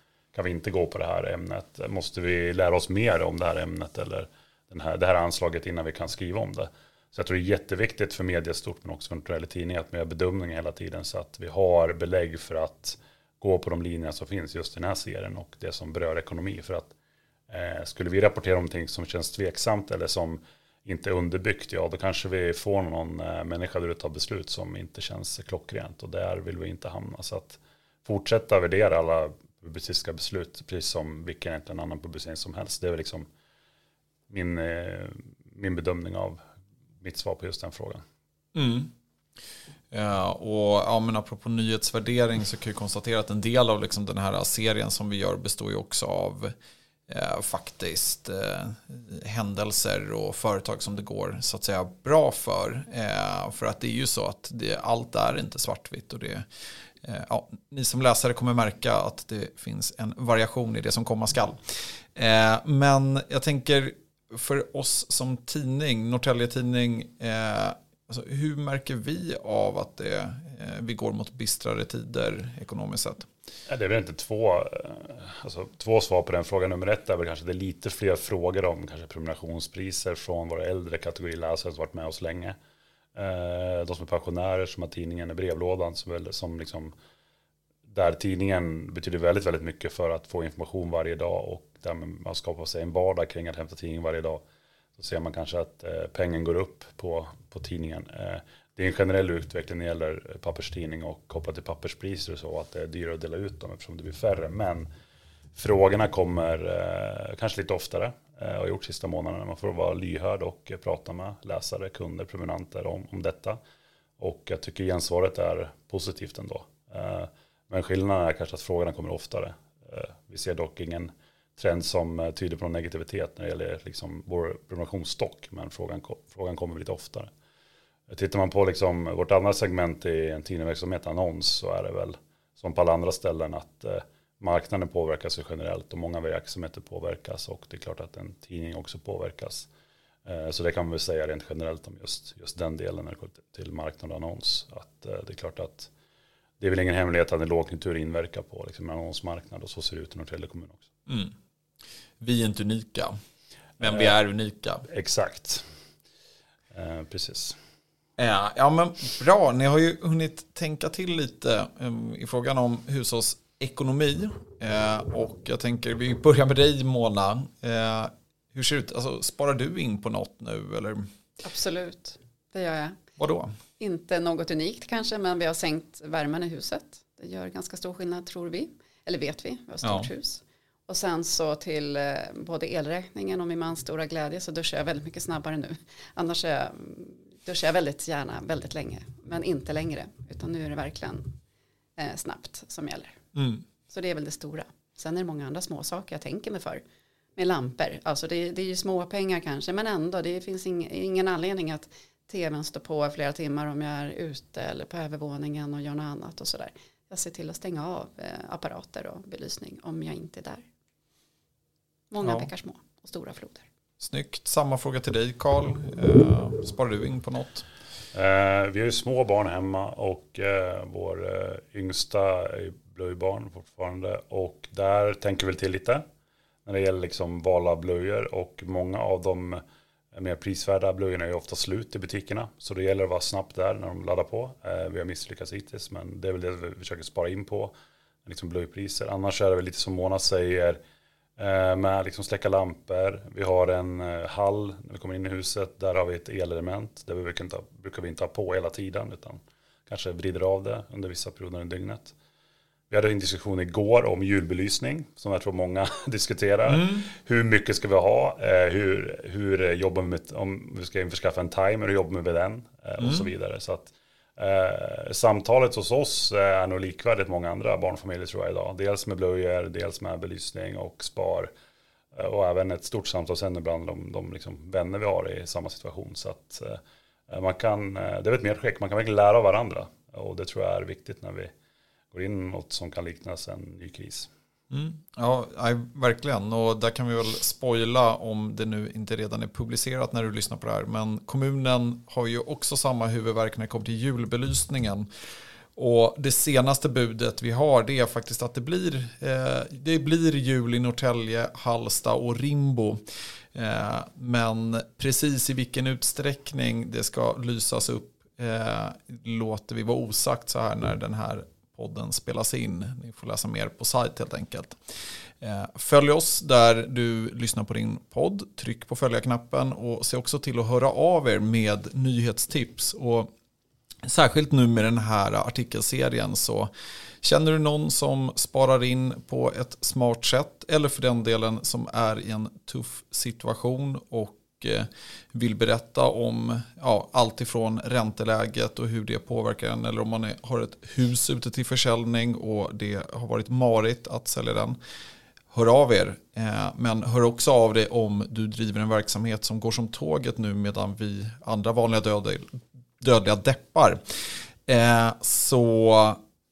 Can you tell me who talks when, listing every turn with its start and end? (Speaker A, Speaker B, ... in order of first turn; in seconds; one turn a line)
Speaker A: 0.3-16.9
Speaker A: 17.5-33.3
Speaker A: 34.3-36.4
Speaker A: 37.0-38.0
Speaker B: 38.5-38.9
Speaker B: 39.9-46.5
Speaker B: 47.1-56.5
Speaker B: 57.0-61.6
Speaker B: 62.1-73.3
Speaker A: 73.7-82.5
Speaker A: 83.2-86.9
Speaker A: 87.9-94.4
Speaker A: 95.0-104.9
Speaker A: 105.5-113.6
Speaker A: 114.2-127.3
Speaker A: 128.1-139.7
Speaker A: 140.2-145.9
Speaker A: 146.6-150.9
Speaker B: 152.2-153.1
Speaker B: 153.8-154.8
Speaker A: 153.8-154.2
Speaker A: 154.9-155.6
Speaker A: 156.7-157.6
Speaker B: 158.2-171.0
Speaker C: 171.4-173.0
Speaker B: 173.2-173.5
Speaker C: 173.8-191.4
Speaker B: 179.8-180.1
Speaker C: 192.0-193.2
Speaker B: 193.3-193.6
Speaker C: 193.9-196.8
Speaker C: 197.4-210.7
Speaker C: 212.1-213.6
Speaker B: 212.2-212.5
Speaker B: 214.0-217.7
Speaker A: 218.1-226.0
Speaker A: 226.7-229.6
Speaker A: 230.1-237.7
Speaker A: 238.2-240.8
Speaker A: 241.4-252.1
Speaker A: 252.9-271.5
Speaker B: 256.7-257.1
Speaker B: 263.0-263.3
Speaker A: 272.1-281.5
Speaker A: 282.1-284.3
Speaker B: 284.7-295.1
Speaker B: 295.8-303.0
Speaker B: 303.5-314.8
Speaker B: 315.4-323.3
Speaker B: 324.0-326.7
Speaker B: 327.2-344.8
Speaker B: 345.5-354.0
Speaker B: 354.7-356.2